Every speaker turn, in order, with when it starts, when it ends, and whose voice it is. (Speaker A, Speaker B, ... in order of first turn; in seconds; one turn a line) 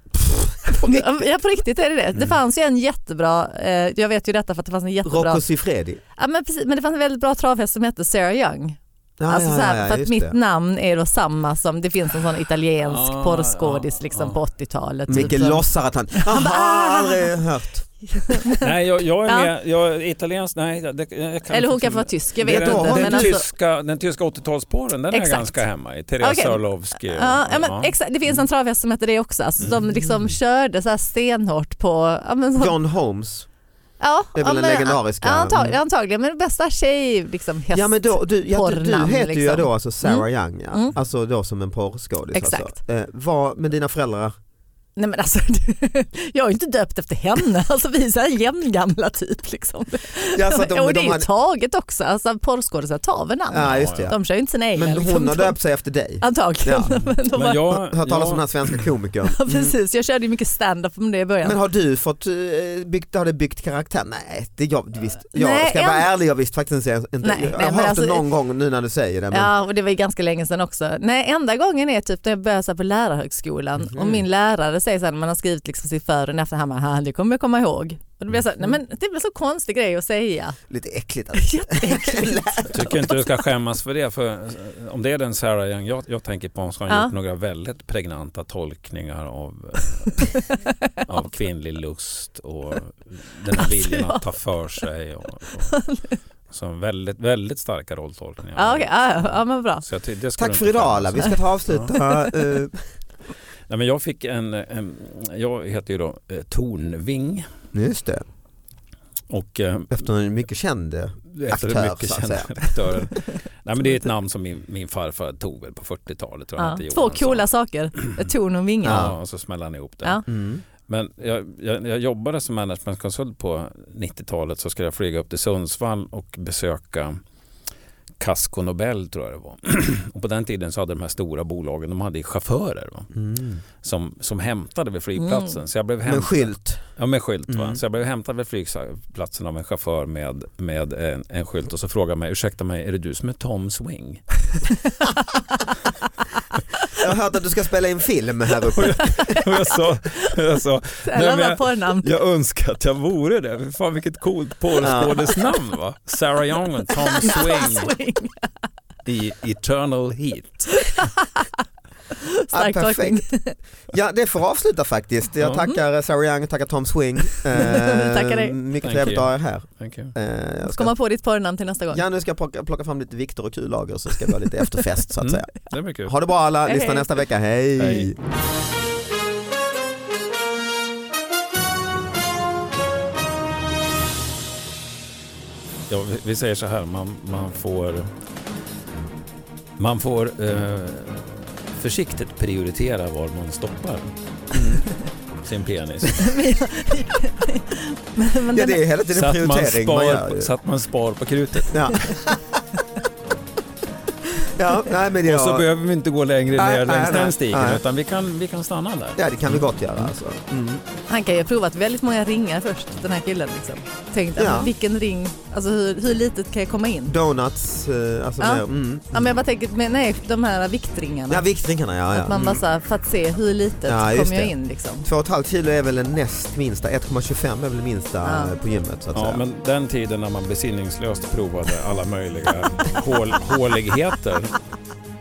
Speaker A: 0.2-1.2
Speaker B: 0.7-5.4
Speaker A: 5.0-6.0
Speaker B: 6.2-17.3
Speaker A: 9.2-10.3
Speaker C: 12.8-14.4
Speaker A: 15.1-17.9
Speaker B: 18.1-18.7
Speaker C: 18.6-27.9
Speaker B: 21.5-23.4
Speaker A: 22.4-23.4
Speaker B: 25.1-25.6
Speaker B: 26.2-32.7
Speaker A: 32.6-33.5
Speaker B: 34.0-40.9
Speaker A: 34.3-35.8
Speaker A: 37.7-44.4
Speaker B: 42.3-42.8
Speaker B: 45.0-55.5
Speaker A: 50.3-51.3
Speaker A: 53.5-54.2
Speaker C: 53.6-54.1
Speaker A: 54.7-56.9
Speaker B: 56.2-57.8
Speaker C: 57.0-58.8
Speaker A: 57.7-59.8
Speaker B: 59.3-61.6
Speaker A: 61.4-69.5
Speaker B: 65.3-66.1
Speaker B: 67.2-68.2
Speaker B: 69.3-80.6
Speaker A: 73.8-74.2
Speaker A: 80.7-83.1
Speaker B: 81.3-82.6
Speaker C: 82.7-90.4
Speaker B: 90.3-90.7
Speaker C: 91.0-95.8
Speaker B: 93.6-94.2
Speaker B: 95.7-96.2
Speaker C: 96.5-101.9
Speaker B: 98.6-99.8
Speaker A: 100.4-102.8
Speaker C: 103.7-107.5
Speaker A: 107.7-108.2
Speaker C: 109.3-110.0
Speaker A: 109.9-113.0
Speaker C: 111.3-117.5
Speaker B: 116.6-119.1
Speaker A: 118.8-119.1
Speaker C: 118.8-127.2
Speaker A: 120.3-120.6
Speaker C: 128.2-133.2
Speaker A: 133.1-133.6
Speaker C: 133.8-144.6
Speaker A: 136.0-136.8
Speaker A: 137.5-137.8
Speaker A: 146.9-149.3
Speaker C: 148.7-157.9
Speaker B: 151.0-152.1
Speaker A: 154.8-155.4
Speaker B: 157.1-158.5
Speaker C: 159.0-160.8
Speaker B: 160.7-161.5
Speaker B: 162.1-163.6
Speaker A: 162.5-163.3
Speaker A: 163.8-170.9
Speaker B: 167.6-168.5
Speaker C: 168.8-170.1
Speaker B: 170.7-172.0
Speaker A: 171.9-175.5
Speaker C: 175.2-176.1
Speaker A: 176.0-178.2
Speaker B: 176.7-177.2
Speaker C: 177.8-178.1
Speaker C: 185.9-188.1
Speaker C: 189.8-194.1
Speaker A: 194.5-194.8
Speaker C: 195.3-196.3
Speaker B: 196.2-198.8
Speaker A: 198.5-200.5
Speaker C: 199.1-202.2
Speaker A: 201.7-202.4
Speaker A: 204.4-205.7
Speaker C: 205.2-210.1
Speaker A: 206.6-207.8
Speaker A: 209.2-210.8
Speaker B: 211.1-217.1
Speaker A: 214.3-214.7
Speaker A: 217.1-219.3
Speaker B: 218.4-221.4
Speaker A: 221.3-222.6
Speaker B: 222.1-225.1
Speaker A: 223.8-229.4
Speaker B: 228.2-228.6
Speaker C: 229.1-234.6